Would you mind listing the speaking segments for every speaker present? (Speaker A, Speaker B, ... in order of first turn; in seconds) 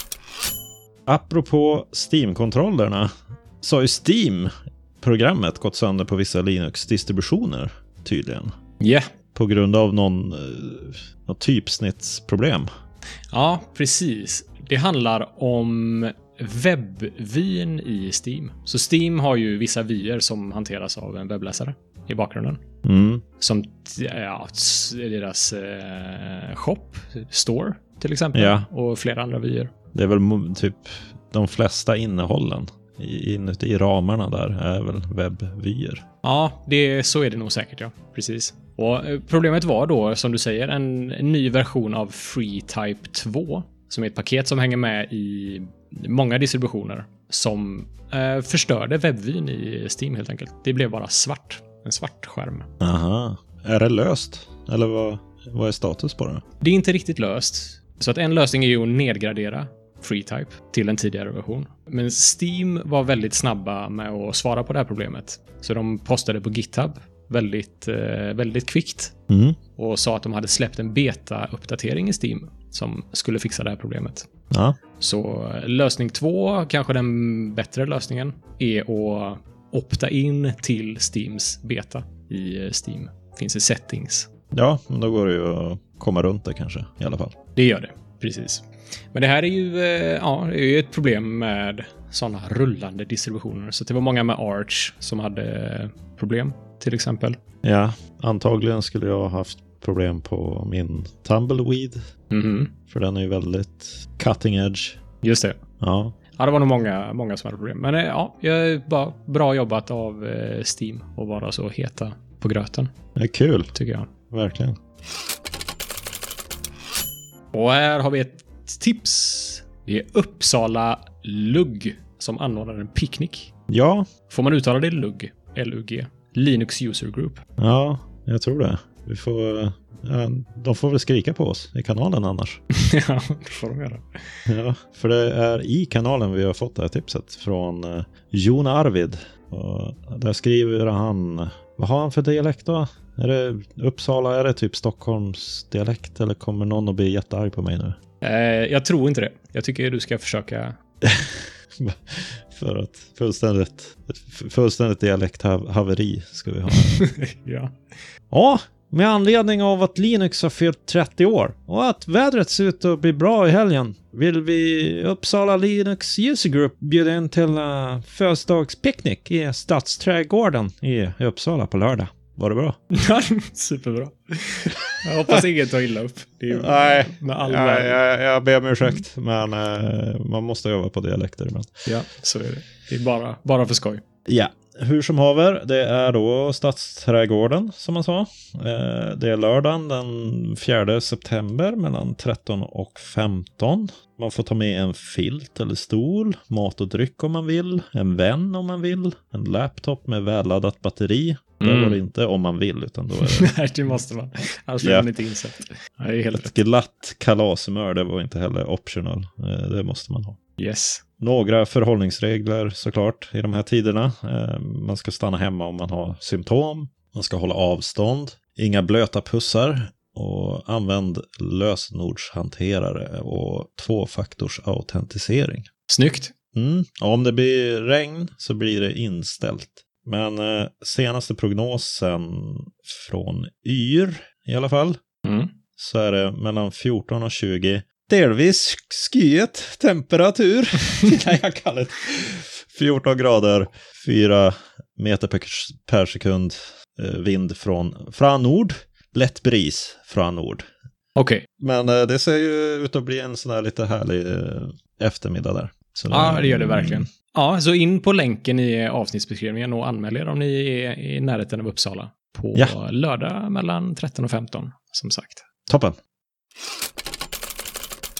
Speaker A: 1.1-8.5, 9.3-12.7, 22.8-23.2, 28.3-28.7, 29.9-36.0, 52.8-56.4, 69.3-69.6, 74.5-74.8, 84.5-87.4, 97.6-102.0, 102.9-105.0, 105.8-106.1, 113.2-113.7, 114.3-114.8, 123.7-124.1, 127.6-132.6, 134.5-148.0, 151.0-157.1, 158.3-172.8, 176.5-181.9, 184.3-203.5, 204.8-205.1, 206.3-210.4, 211.2-225.7, 226.5-235.0, 235.8-250.6, 251.6-257.1, 265.7-265.9
Speaker B: 8.8-9.1, 13.3-22.6, 23.4-29.7, 36.2-52.7, 56.6-69.1, 69.8-74.3, 75.0-84.3, 87.5-97.4, 102.3-102.7, 105.2-105.6, 106.4-112.9, 113.7-114.1, 117.5-123.5, 124.3-127.4, 132.7-134.4, 148.2-150.8, 156.7-157.8, 172.9-178.0, 181.8-184.0, 201.6-202.0, 203.2-206.5, 210.6-211.0, 225.9-226.3, 235.2-235.5, 251.2-251.4, 256.1-265.4